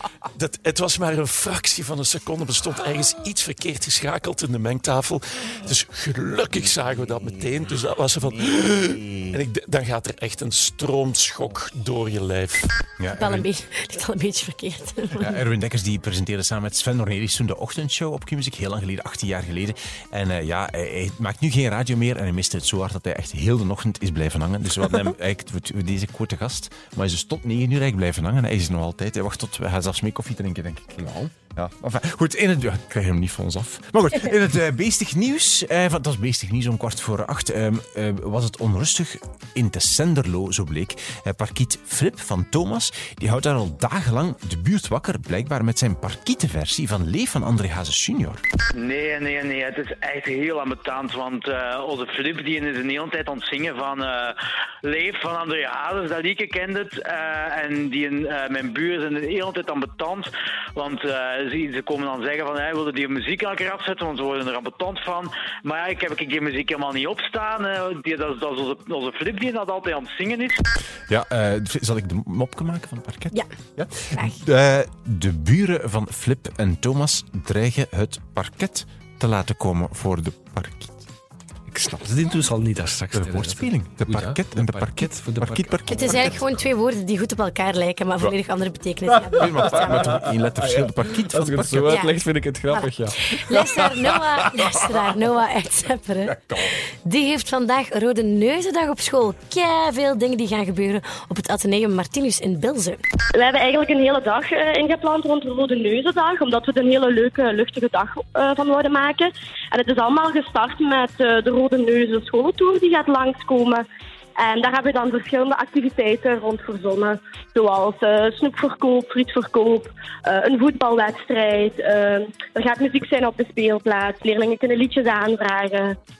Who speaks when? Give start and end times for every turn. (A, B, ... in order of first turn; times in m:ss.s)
0:00.4-0:12.8 A
0:13.0-0:13.5 B
0:13.2-0:15.4 C
0:15.1-0:48.4 B
0:31.0-0:31.3 D
0:48.8-1:10.6 E
1:11.1-1:21.1 B
1:14.1-1:14.4 C
1:21.7-1:26.4 D
1:23.1-1:26.5 B
1:25.9-1:30.2 C
1:29.3-1:32.0 B
1:30.6-1:33.8 D
1:31.9-1:32.1 C
1:32.7-1:43.0 C
1:43.3-1:53.8 F
1:54.4-2:06.0 F